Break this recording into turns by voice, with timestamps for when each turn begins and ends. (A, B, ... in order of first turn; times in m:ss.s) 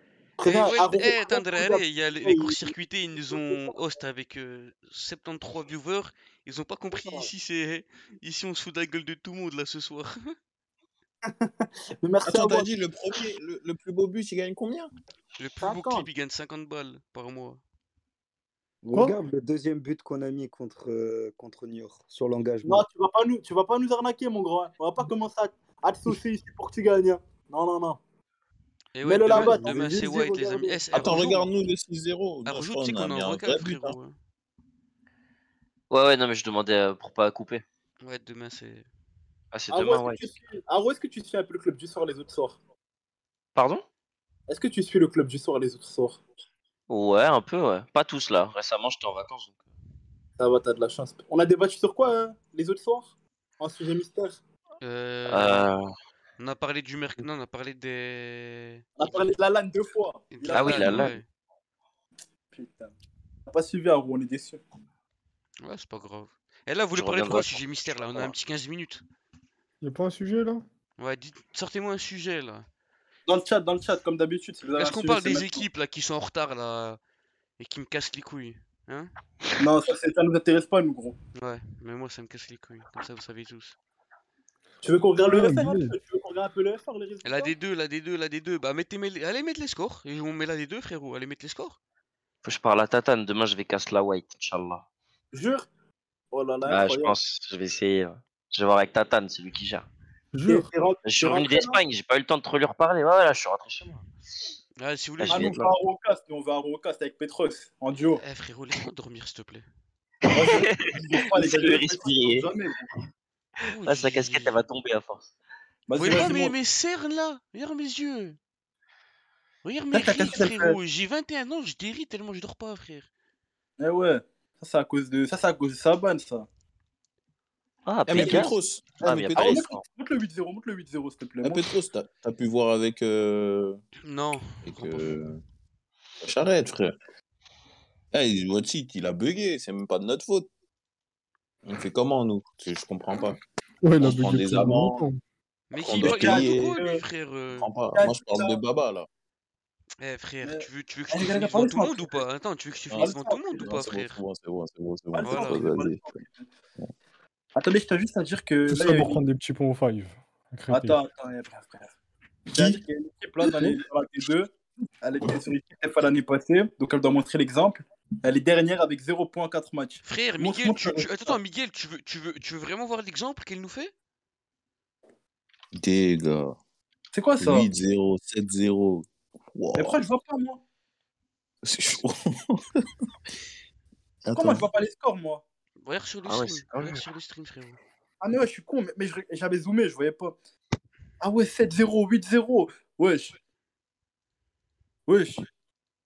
0:00.4-0:02.8 A
0:00.4-0:10.3 B
0:03.3-0:03.7 A
0:11.3-0:12.7 A
0:12.2-0:14.9 C
0:15.4-0:17.6 B
0:15.6-0:16.1 A
0:18.9-0:22.9 D
0:22.6-0:28.0 A
0:29.0-0:31.5 B
0:29.0-0:31.2 A
0:30.9-0:34.0 C
0:32.5-0:34.2 B
0:35.9-0:37.6 E
0:38.0-0:38.9 B
0:39.5-0:40.2 E
0:39.7-0:42.6 A
0:43.6-0:43.8 E
0:44.5-0:46.2 A
0:46.9-0:49.6 E
0:50.4-0:54.4 A
0:54.8-0:55.7 B
0:55.3-0:55.9 E
0:56.4-0:58.8 B
0:59.0-1:01.2 A
1:00.3-1:01.3 B
1:00.5-1:01.1 E
1:02.5-1:02.9 A
1:03.5-1:04.6 A
1:05.6-1:09.0 B
1:07.0-1:08.4 E
1:09.8-1:10.6 F
1:11.0-1:12.7 B
1:13.3-1:15.6 A
1:14.8-1:17.0 B
1:17.6-1:19.1 B
1:19.6-1:21.2 A
1:21.4-1:23.8 B
1:24.8-1:27.5 A
1:25.2-1:26.0 F
1:27.2-1:31.8 B
1:32.4-1:34.9 E
1:35.3-1:35.7 A
1:36.3-1:37.2 A
1:36.7-1:39.9 E
1:40.3-1:40.7 F
1:40.5-1:41.8 A
1:41.0-1:44.0 E
1:44.8-1:45.6 B
1:45.2-1:45.7 E
1:45.3-1:48.2 A
1:48.2-1:49.6 B
1:50.3-1:52.9 A
1:50.4-1:52.5 E
1:53.7-1:54.6 B
1:53.9-1:55.3 E
1:55.9-1:56.5 A
1:56.0-1:58.4 B
1:59.6-2:03.1 B
1:59.9-2:00.8 A
2:03.8-2:06.5 A
2:07.9-2:09.8 E
2:08.1-2:09.6 C
2:08.1-2:11.7 A
2:11.4-2:13.8 C
2:14.0-2:15.2 B
2:14.6-2:15.4 C
2:16.2-2:17.0 C
2:18.1-2:20.5 C
2:21.6-2:23.4 C
2:23.8-2:25.2 F
2:24.0-2:25.1 C
2:25.7-2:27.7 B
2:25.8-2:26.8 C
2:25.9-2:27.0 A
2:27.5-2:29.1 C
2:27.9-2:28.6 A
2:30.0-2:34.2 B
2:30.4-2:32.2 A
2:32.9-2:36.0 C
2:33.0-2:33.7 A
2:35.1-2:36.5 A
2:35.2-2:35.6 B
2:37.6-2:39.2 A
2:38.7-2:41.0 F
2:40.7-2:41.9 A
2:42.5-2:51.4 A
2:50.0-2:53.9 B
2:55.7-2:56.6 C
2:57.1-2:57.7 A
2:57.4-3:00.0 C
2:59.8-3:00.6 A
3:01.6-3:02.9 C
3:04.2-3:04.7 C
3:04.4-3:05.4 A
3:05.8-3:07.8 B
3:06.3-3:07.0 E
3:08.2-3:10.4 A
3:11.2-3:13.4 A
3:15.1-3:15.5 A